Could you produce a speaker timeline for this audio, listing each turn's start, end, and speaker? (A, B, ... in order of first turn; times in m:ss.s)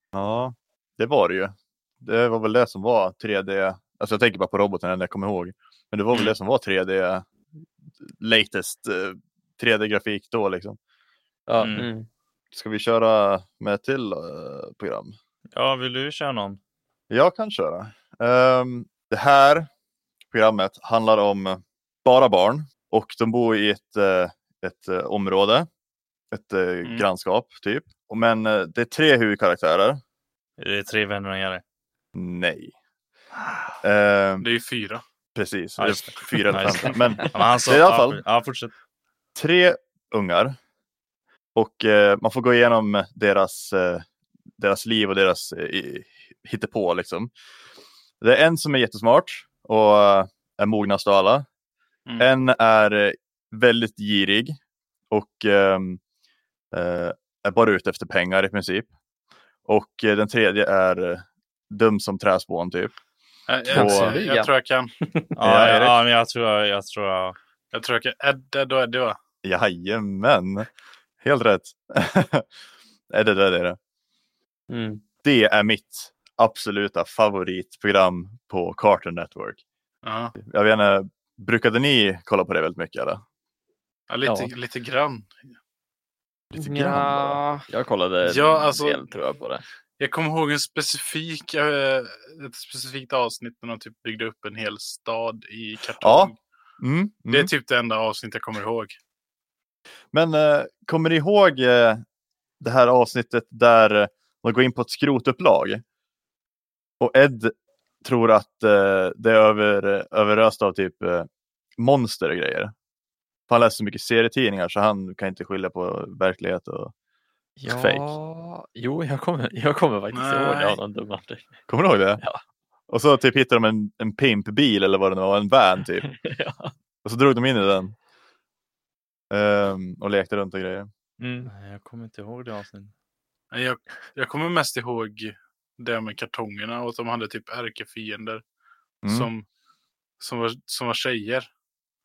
0:00.1-0:07.3 A
0:08.0-0:10.8 A
0:11.5-0:11.8 B
0:11.6-0:11.9 C
0:11.8-0:12.1 D
0:12.5-0:15.2 A
0:15.5-0:16.6 C
0:17.1-0:19.7 A
0:20.3-0:25.7 A
0:26.3-0:30.0 A
0:30.6-0:31.6 C
0:32.1-0:32.7 A
0:33.8-0:34.5 A
0:34.4-0:35.0 E
0:35.4-0:38.2 A
0:35.8-0:38.7 C
0:39.4-0:40.6 A
0:41.6-0:44.1 A
0:44.6-0:47.3 A
0:48.2-0:51.5 A
0:52.2-0:54.6 A
0:55.1-0:56.0 A
0:56.7-0:58.9 A
0:59.6-1:02.9 A
1:03.5-1:04.9 E
1:03.6-1:04.2 A
1:03.7-1:04.5 D
1:05.0-1:05.4 D
1:05.4-1:07.4 C
1:05.4-1:06.0 A
1:07.7-1:09.2 E
1:09.4-1:10.7 A
1:11.2-1:12.5 A
1:13.1-1:13.8 A
1:14.7-1:15.0 D
1:15.2-1:19.6 A
1:20.0-1:20.4 E
1:20.4-1:23.2 A
1:24.1-1:25.4 E
1:24.2-1:24.5 B
1:26.5-1:27.4 A
1:26.6-1:27.7 D
1:27.7-1:29.6 B
1:28.2-1:29.1 E
1:30.0-1:36.4 E
1:36.0-1:37.5 A
1:37.3-1:39.0 E
1:40.1-1:42.0 A
1:42.6-1:45.8 A
1:47.0-1:52.7 A
1:53.5-1:56.9 A
1:57.6-2:01.5 B
1:57.7-1:58.2 A
2:00.1-2:00.8 E
2:01.7-2:02.2 A
2:02.9-2:06.1 A
2:06.1-2:06.7 B
2:07.0-2:08.0 A
2:09.3-2:10.9 A
2:11.2-2:11.5 B
2:11.5-2:12.9 C
2:13.5-2:18.4 E
2:19.0-2:19.3 A
2:19.1-2:19.5 E
2:20.2-2:21.5 E